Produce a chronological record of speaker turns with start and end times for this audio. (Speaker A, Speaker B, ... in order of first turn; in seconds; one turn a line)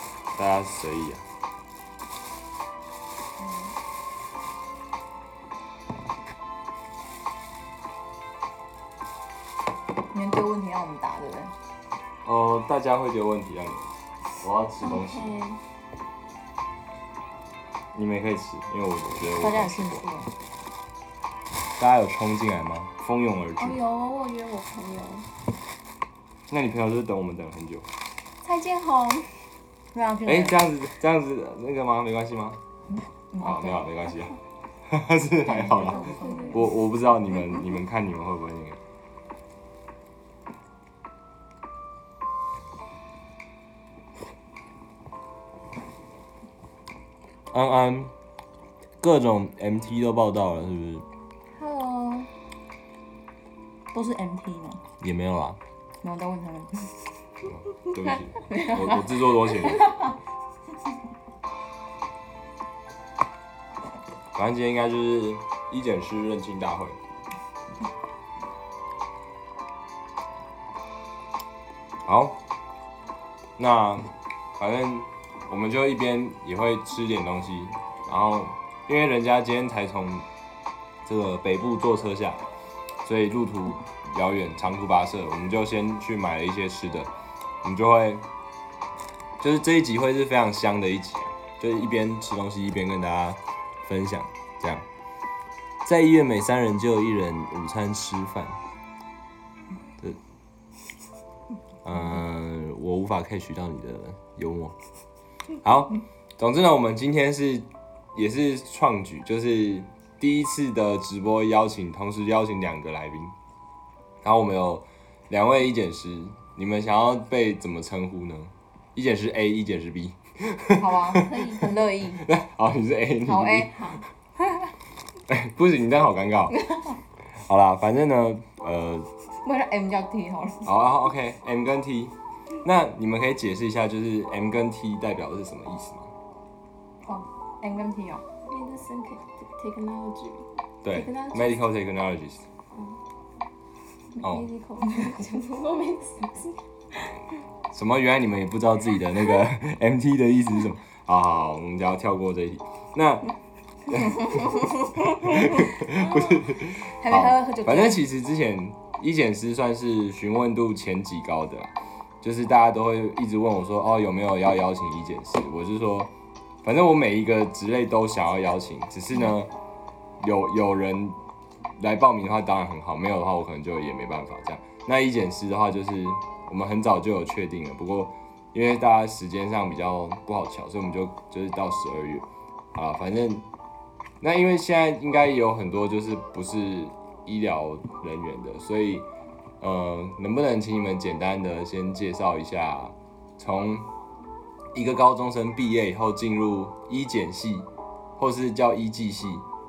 Speaker A: 0.4-1.2
Speaker B: 3.4-3.7
Speaker B: 10.1-11.5
Speaker A: 12.2-13.9
Speaker A: 14.4-15.3
Speaker C: 14.8-15.6
Speaker A: 17.9-20.1
Speaker B: 19.4-20.3
Speaker A: 21.8-23.8
Speaker C: 23.6-25.2
Speaker A: 26.5-27.9
Speaker C: 28.4-29.5
Speaker B: 29.9-30.6
Speaker A: 30.3-32.6
Speaker B: 33.3-33.9
Speaker A: 33.4-38.8
Speaker B: 35.5-36.7
Speaker C: 35.8-36.8
Speaker A: 47.5-48.1
Speaker A: 49.0-51.0
Speaker B: 51.5-52.3
Speaker B: 53.9-54.8
Speaker A: 55.0-55.6
Speaker B: 56.0-57.1
Speaker A: 57.5-60.0
Speaker B: 57.7-60.1
Speaker A: 64.3-67.0
Speaker A: 72.0-72.4
Speaker A: 73.6-80.2
Speaker A: 81.0-82.5
Speaker A: 83.0-87.1
Speaker A: 87.6-88.2
Speaker A: 89.4-94.8
Speaker A: 95.8-98.6
Speaker A: 101.8-104.7
Speaker A: 105.6-113.3
Speaker A: 114.2-124.0
Speaker B: 120.8-122.2
Speaker C: 121.2-121.7
Speaker B: 123.3-123.7
Speaker C: 123.5-124.0
Speaker A: 125.3-126.6
Speaker A: 127.4-129.1
Speaker B: 129.4-130.8
Speaker A: 130.7-136.1
Speaker B: 137.0-138.2
Speaker C: 138.5-141.6
Speaker A: 140.8-142.4
Speaker C: 144.1-147.2
Speaker A: 144.2-144.5
Speaker A: 147.7-153.3
Speaker A: 153.9-154.6
Speaker B: 154.0-158.0
Speaker A: 155.2-166.1
Speaker A: 166.6-169.5
Speaker A: 170.2-171.2
Speaker A: 171.8-183.4
Speaker A: 184.2-189.1
Speaker A: 189.6-193.9
Speaker A: 194.7-199.4